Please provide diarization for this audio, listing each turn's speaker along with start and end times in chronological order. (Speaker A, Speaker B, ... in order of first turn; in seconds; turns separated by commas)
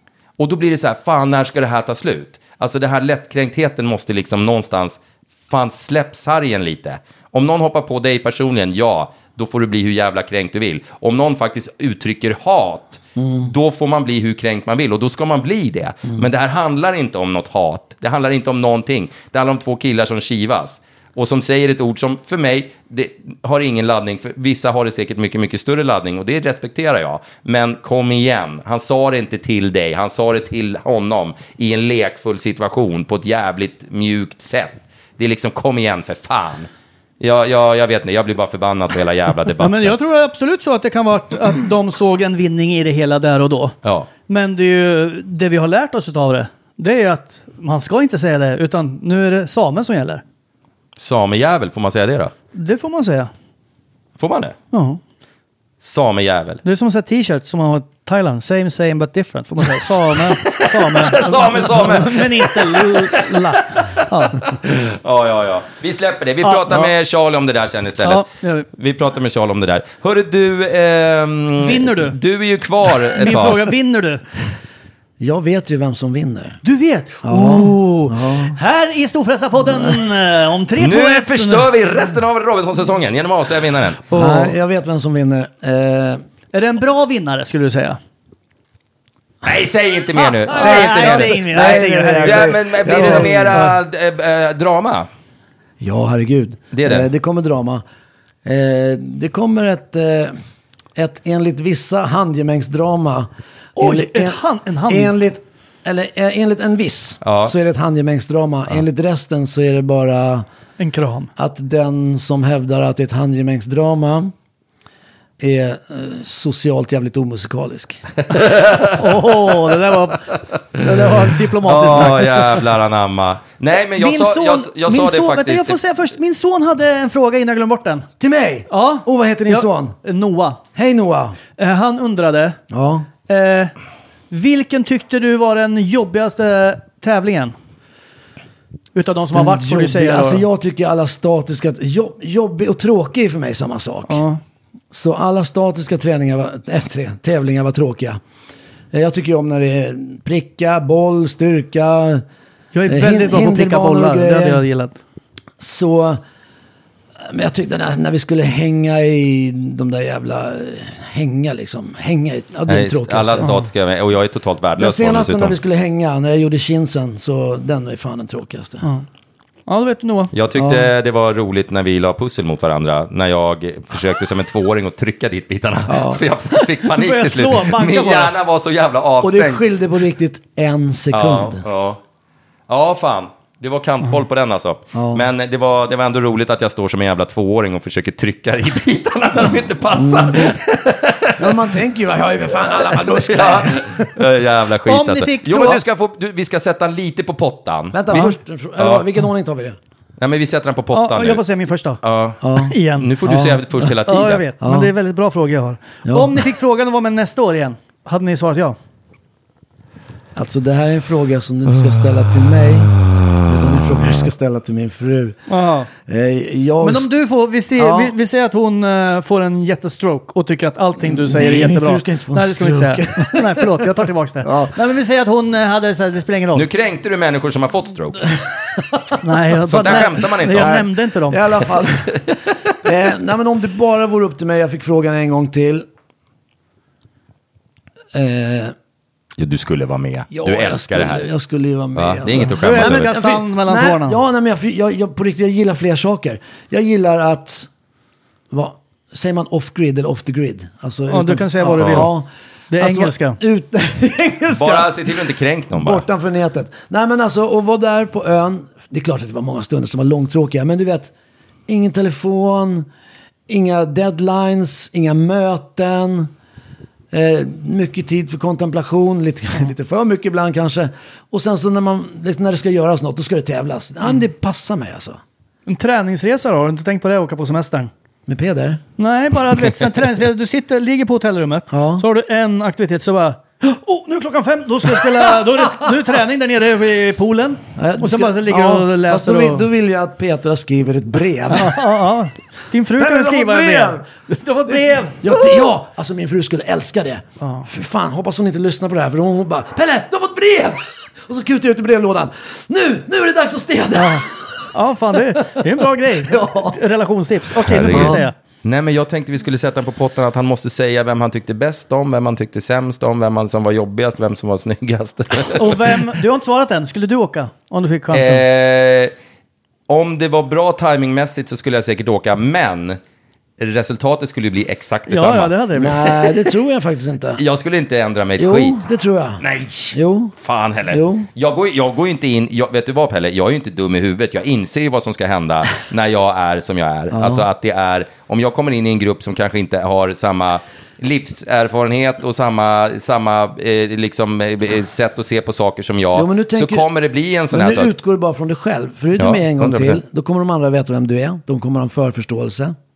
Speaker A: 0.4-36.7, Speaker B: 13.2-13.5, Speaker A: 37.2-39.9, Speaker C: 39.6-43.8, Speaker A: 43.8-44.1, Speaker C: 44.3-50.2, Speaker A: 51.0-52.3, Speaker C: 52.5-53.3, Speaker A: 54.2-54.6, Speaker C: 54.7-55.0, Speaker A: 55.8-56.6, Speaker C: 56.6-64.5, Speaker A: 60.4-73.7, Speaker C: 66.4-66.8, Speaker C: 68.0-68.7, Speaker C: 71.6-72.2, Speaker C: 73.2-74.2, Speaker B: 75.2-76.6, Speaker C: 76.6-81.7, Speaker B: 77.2-78.6, Speaker A: 80.8-84.0, Speaker C: 84.1-84.5, Speaker B: 84.1-86.2, Speaker C: 86.5-88.0, Speaker A: 89.4-95.1, Speaker C: 90.2-93.8, Speaker B: 90.5-93.7, Speaker B: 95.8-97.8, Speaker A: 96.7-97.1, Speaker B: 98.5-100.3, Speaker B: 101.0-110.5, Speaker C: 103.8-105.1, Speaker A: 107.2-107.5, Speaker C: 110.8-111.3, Speaker B: 111.4-114.3, Speaker B: 115.4-118.0, Speaker A: 118.3-119.3, Speaker C: 119.0-122.4, Speaker A: 121.6-125.8, Speaker C: 123.9-128.1, Speaker B: 128.2-130.0, Speaker C: 128.7-130.6, Speaker B: 130.8-131.4, Speaker C: 131.6-132.6, Speaker B: 132.7-133.1, Speaker C: 133.3-133.7, Speaker C: 134.3-137.5, Speaker C: 138.9-140.4, Speaker B: 139.3-144.2, Speaker C: 144.1-144.4, Speaker B: 144.9-148.2, Speaker B: 148.9-152.2, Speaker C: 152.7-155.0, Speaker B: 152.9-154.6, Speaker B: 155.6-156.2, Speaker B: 157.2-163.6, Speaker A: 162.7-165.6, Speaker B: 164.8-168.9, Speaker C: 169.7-170.3, Speaker A: 170.3-179.6, Speaker B: 170.6-170.9, Speaker B: 175.9-176.2, Speaker C: 176.5-178.3, Speaker B: 179.2-181.6, Speaker A: 181.1-182.0, Speaker A: 182.7-191.7, Speaker B: 184.9-185.2, Speaker B: 189.9-190.6, Speaker B: 191.4-194.2, Speaker A: 192.7-199.1, Speaker C: 194.9-195.8, Speaker B: 197.9-199.8, Speaker A: 200.2-201.4, Speaker C: 200.9-202.0, Speaker A: 202.0-204.5, Speaker B: 202.4-203.9, Speaker C: 202.6-203.1, Speaker C: 204.1-208.8, Speaker B: 204.6-204.9, Speaker B: 206.1-206.5, Speaker B: 210.3-215.4, Speaker A: 211.7-214.2, Speaker C: 215.5-215.9, Speaker B: 216.0-217.1, Speaker C: 216.8-226.7, Speaker B: 217.8-218.1, Speaker B: 221.0-223.9, Speaker B: 224.4-224.8, Speaker A: 226.6-228.4, Speaker C: 229.2-231.4, Speaker A: 229.7-230.9, Speaker B: 230.5-235.9, Speaker B: 238.1-238.8, Speaker A: 239.4-241.3, Speaker B: 240.3-247.7, Speaker A: 241.9-243.1, Speaker C: 242.6-244.2, Speaker B: 248.5-261.1, Speaker C: 251.1-252.1, Speaker A: 251.8-252.1, Speaker C: 252.7-253.4, Speaker A: 254.5-256.1, Speaker B: 261.7-262.9, Speaker B: 263.5-266.3, Speaker B: 267.1-275.2, Speaker C: 275.7-277.9, Speaker B: 278.3-278.8, Speaker C: 279.0-289.7, Speaker B: 281.7-282.1, Speaker B: 287.8-291.9, Speaker C: 291.5-295.5, Speaker B: 292.9-294.1, Speaker B: 295.1-304.6, Speaker C: 297.4-297.7, Speaker C: 303.9-308.3, Speaker B: 305.6-306.8, Speaker A: 307.7-316.0, Speaker B: 307.8-308.2, Speaker C: 315.5-318.4, Speaker A: 318.1-319.1, Speaker A: 319.9-323.0, Speaker A: 323.6-326.3, Speaker C: 325.1-326.0, Speaker B: 325.8-327.4, Speaker A: 327.4-328.8, Speaker B: 328.4-330.4, Speaker A: 329.4-347.9, Speaker B: 330.9-331.3, Speaker B: 337.1-337.5, Speaker B: 346.1-346.9, Speaker B: 347.5-352.8, Speaker A: 349.2-350.0